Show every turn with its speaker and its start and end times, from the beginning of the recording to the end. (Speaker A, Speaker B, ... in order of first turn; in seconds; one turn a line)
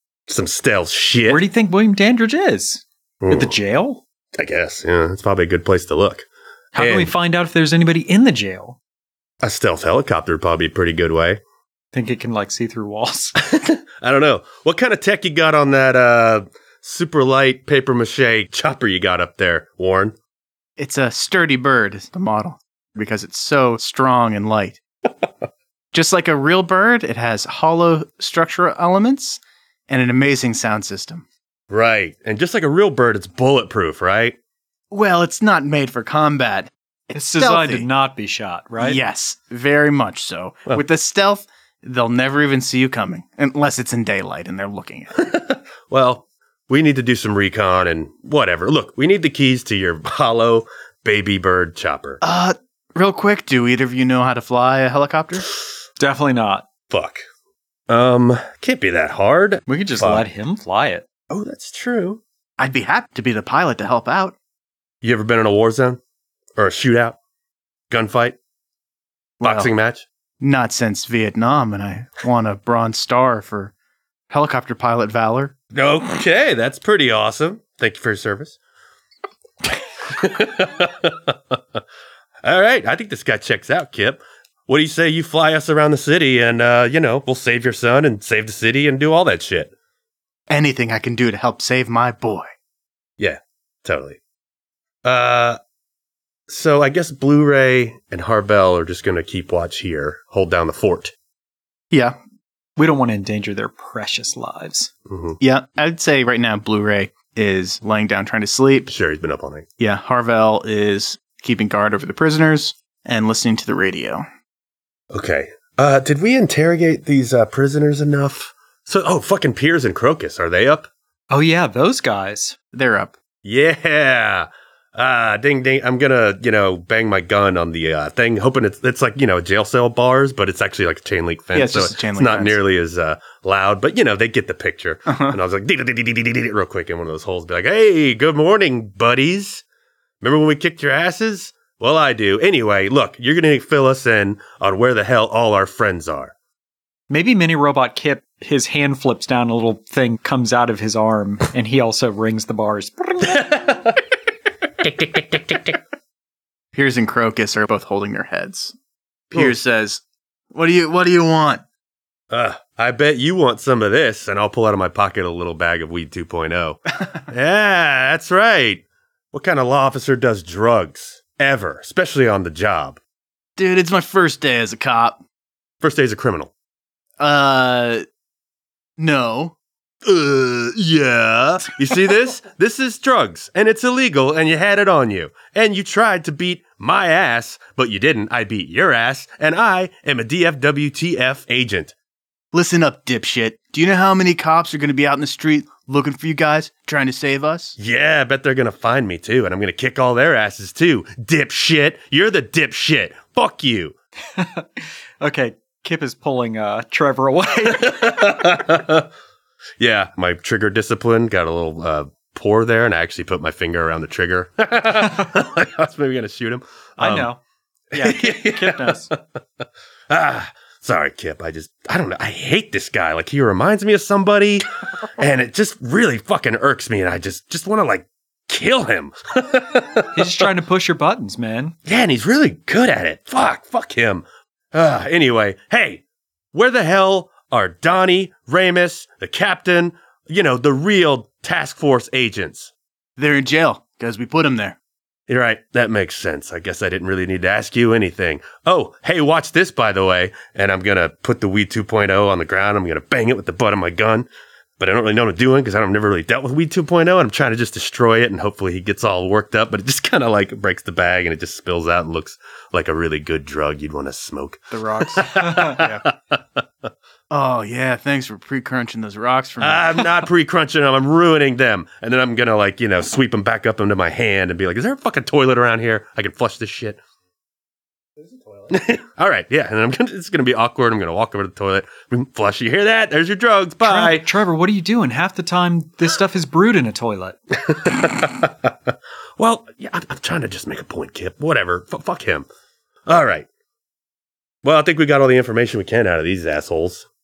Speaker A: 0.3-1.4
Speaker B: 1.3-4.0
Speaker A: 3.2-3.5
Speaker A: 4.4-7.1
Speaker B: 6.8-8.8
Speaker A: 9.4-11.4
Speaker B: 11.9-13.4
Speaker A: 13.4-20.1
Speaker C: 20.8-24.8
Speaker C: 25.9-31.3
Speaker A: 31.7-34.4
Speaker C: 34.9-37.9
Speaker B: 37.1-39.0
Speaker C: 38.8-45.2
Speaker A: 45.2-52.2
Speaker C: 52.2-55.5
Speaker B: 56.0-56.7
Speaker A: 56.9-57.2
Speaker A: 57.9-60.3
Speaker B: 59.7-61.1
Speaker A: 61.3-62.2
Speaker C: 62.6-64.3
Speaker A: 65.0-66.0
Speaker A: 66.6-67.2
Speaker A: 67.9-68.4
Speaker C: 69.4-69.7
Speaker A: 69.4-70.1
Speaker C: 70.4-73.7
Speaker C: 74.3-75.5
Speaker A: 75.7-78.6
Speaker A: 80.1-81.8
Speaker A: 82.4-89.7
Speaker C: 90.5-92.5
Speaker A: 93.2-94.2
Speaker A: 95.0-95.6
Speaker A: 96.5-101.1
Speaker C: 101.9-102.2
Speaker B: 102.8-104.9
Speaker A: 105.1-105.4
Speaker C: 105.4-108.9
Speaker A: 108.9-109.7
Speaker C: 109.8-114.2
Speaker A: 115.1-120.9
Speaker B: 121.3-122.5
Speaker C: 122.7-123.1
Speaker A: 123.4-139.6
Speaker C: 131.5-132.6
Speaker C: 135.1-135.4
Speaker A: 140.2-146.3
Speaker B: 147.1-153.5
Speaker A: 153.2-154.0
Speaker A: 154.8-155.8
Speaker C: 156.7-158.8
Speaker C: 159.3-161.6
Speaker A: 162.3-173.0
Speaker C: 173.6-175.2
Speaker A: 175.8-176.5
Speaker C: 177.2-178.1
Speaker C: 179.0-179.6
Speaker A: 180.0-191.9
Speaker C: 192.5-197.8
Speaker A: 197.8-203.9
Speaker B: 204.3-208.4
Speaker A: 207.7-209.1
Speaker A: 209.8-217.3
Speaker B: 217.0-217.4
Speaker A: 217.9-219.4
Speaker B: 217.9-219.1
Speaker A: 220.1-224.7
Speaker A: 225.2-230.5
Speaker B: 230.1-231.8
Speaker A: 231.9-242.7
Speaker C: 243.2-244.8
Speaker A: 245.3-254.3
Speaker A: 254.8-266.9
Speaker C: 264.7-266.0
Speaker C: 267.3-270.0
Speaker A: 269.6-277.0
Speaker A: 278.7-284.3
Speaker B: 283.8-287.4
Speaker A: 287.6-292.5
Speaker A: 293.1-293.5
Speaker A: 294.6-297.1